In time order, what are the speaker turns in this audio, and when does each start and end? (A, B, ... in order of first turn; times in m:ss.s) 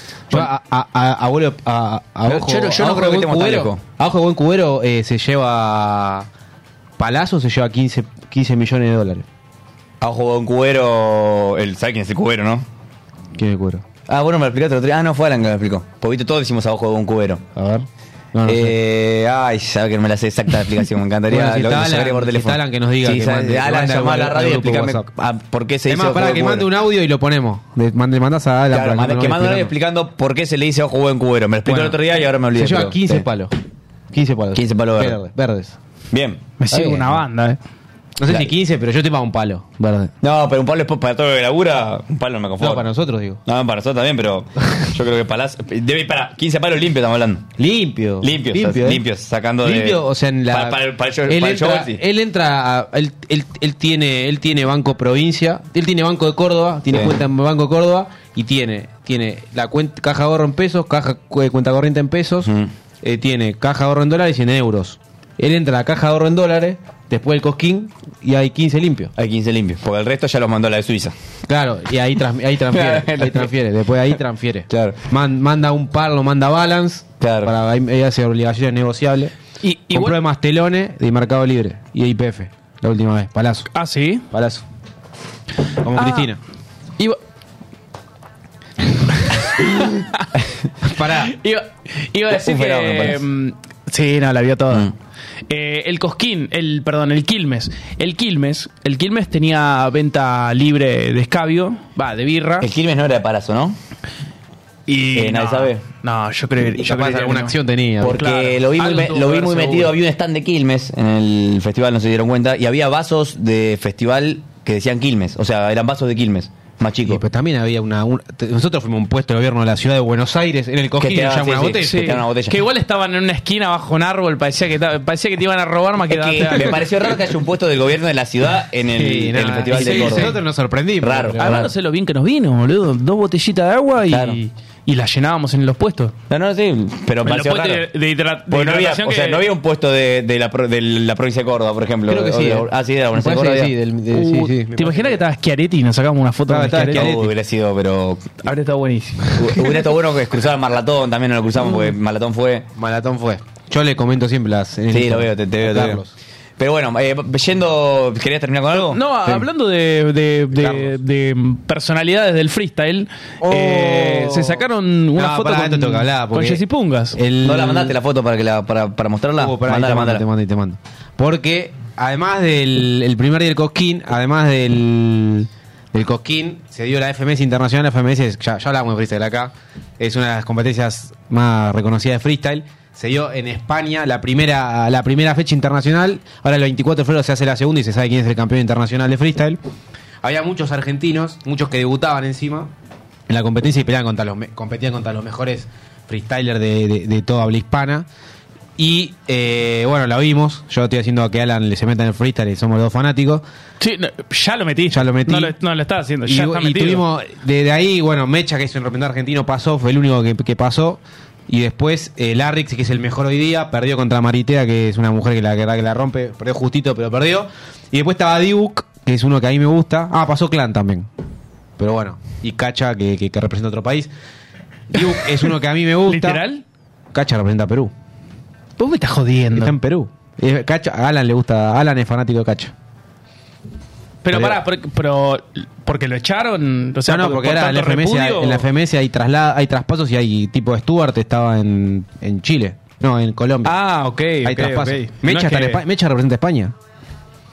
0:00.3-0:06.3 A
0:02.2-0:03.8 B
0:07.0-0:09.2 A
0:10.0-0:12.6 B
0:13.3-0:13.8 A
0:14.1-0:17.4 B
0:17.5-0:18.8 A
0:18.4-0:26.7 B
0:21.3-0:25.1 A
0:25.9-0:29.7 A
0:28.7-0:33.2 B
0:31.6-0:32.0 A
0:32.5-0:33.5 A
0:34.1-0:35.8 A
0:34.5-0:35.2 B
0:36.1-0:36.6 B
0:36.6-0:37.6 C
0:36.7-0:37.1 A
0:38.2-0:40.1 A
0:40.2-0:42.9 B
0:42.6-0:43.4 A
0:43.4-0:47.5 B
0:47.6-0:49.0 A
0:48.2-0:52.0 B
0:49.6-1:09.1 A
1:02.4-1:02.7 B
1:09.2-1:11.1 B
1:11.5-1:19.3 A
1:12.7-1:13.5 B
1:14.7-1:15.0 B
1:17.2-1:17.5 B
1:19.6-1:20.2 C
1:19.9-1:23.7 A
1:23.7-1:24.2 C
1:24.3-1:24.6 A
1:25.8-1:26.4 A
1:26.0-1:26.3 C
1:29.2-1:30.3 C
1:30.8-1:31.3 A
1:31.2-1:34.9 C
1:32.3-1:33.2 B
1:35.5-1:42.7 C
1:42.6-1:43.8 B
1:44.9-1:47.6 C
1:45.1-1:45.8 B
1:46.8-1:48.2 A
1:48.0-1:57.2 B
1:48.1-1:49.9 C
1:57.0-2:02.1 A
2:01.0-2:02.6 B
2:01.8-2:06.8 C
2:06.1-2:10.4 B
2:08.9-2:11.7 A
2:09.7-2:10.3 C
2:11.0-2:11.7 B
2:11.4-2:16.1 C
2:14.1-2:14.4 B
2:16.3-2:17.9 B
2:17.2-2:19.4 C
2:18.5-2:23.7 B
2:22.1-2:25.2 A
2:24.1-2:27.1 C
2:26.5-2:27.3 A
2:26.9-2:28.4 B
2:28.4-2:29.7 C
2:29.4-2:32.7 B
2:32.8-2:36.1 A
2:34.9-2:36.0 B
2:36.6-2:39.0 B
2:38.7-2:47.2 C
2:40.6-2:40.9 A
2:43.4-2:44.6 A
2:45.2-2:46.6 A
2:47.1-2:48.0 A
2:47.4-2:50.2 B
2:49.4-3:09.6 A
3:10.2-3:12.7 A
3:13.3-3:18.1 A
3:18.8-3:23.4 A
3:23.8-3:27.0 C
3:24.9-3:25.6 A
3:26.2-3:41.1 A
3:41.8-3:44.1 A
3:44.9-3:46.4 A
3:46.1-3:46.6 C
3:47.1-3:47.9 A
3:48.8-3:49.7 C
3:49.5-3:52.7 A
3:54.2-3:58.6 C
3:54.3-3:54.6 A
3:57.0-4:03.8 A
4:03.6-4:05.8 C
4:04.4-4:06.7 A